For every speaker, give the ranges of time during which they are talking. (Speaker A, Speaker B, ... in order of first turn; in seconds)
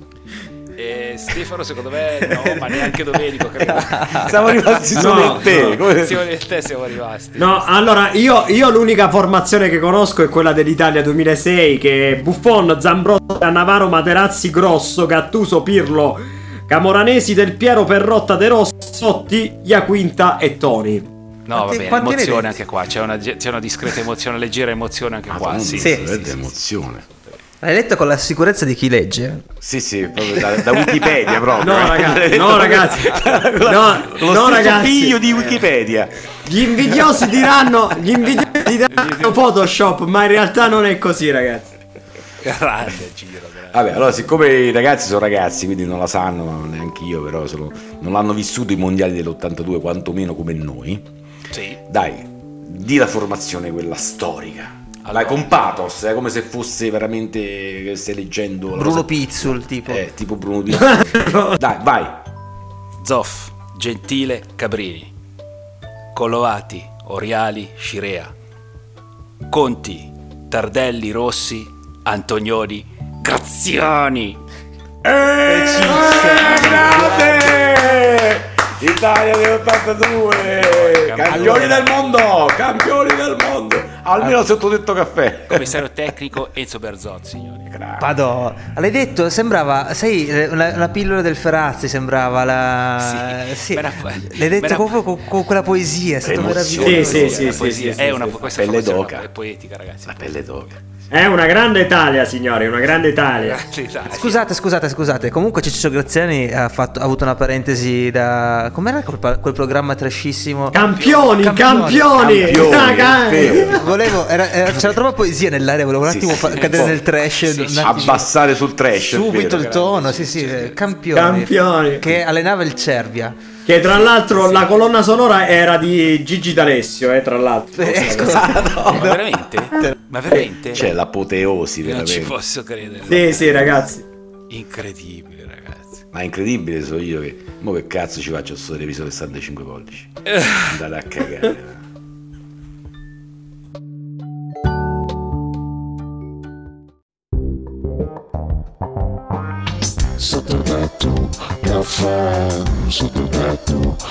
Speaker A: 0.8-7.7, 21.5-27.4, 38.9-39.4, 42.4-44.0, 51.5-51.8, 55.0-55.8, 63.0-65.1, 66.1-68.3, 69.5-74.4, 76.1-76.6, 80.4-82.3, 85.5-87.7, 93.0-95.0, 97.3-100.3, 103.3-104.5, 110.8-111.6, 116.3-118.3, 119.3-120.8, 124.4-124.7, 128.8-130.9, 131.8-133.9, 134.5-136.0, 140.3-140.7
Speaker B: 4.0-6.3, 25.3-27.0, 29.6-36.3, 43.7-51.1, 51.9-62.2, 75.0-85.7, 87.7-88.2, 96.2-99.3, 100.1-100.8, 112.2-114.0, 116.1-117.0, 117.7-119.6, 128.2-129.1, 130.7-132.3, 136.1-141.8
Speaker C: 4.9-5.8, 7.4-21.1, 31.6-33.1, 33.6-35.2, 36.4-41.7, 96.8-98.3, 101.1-103.6, 110.7-113.9, 121.1-122.1, 123.7-129.1, 133.0-134.0
Speaker D: 21.6-22.6, 25.8-26.1, 27.6-29.5, 58.8-60.0, 75.4-77.8, 81.3-81.8, 88.0-98.3, 104.1-110.8, 111.4-118.2, 119.0-123.5, 127.7-129.0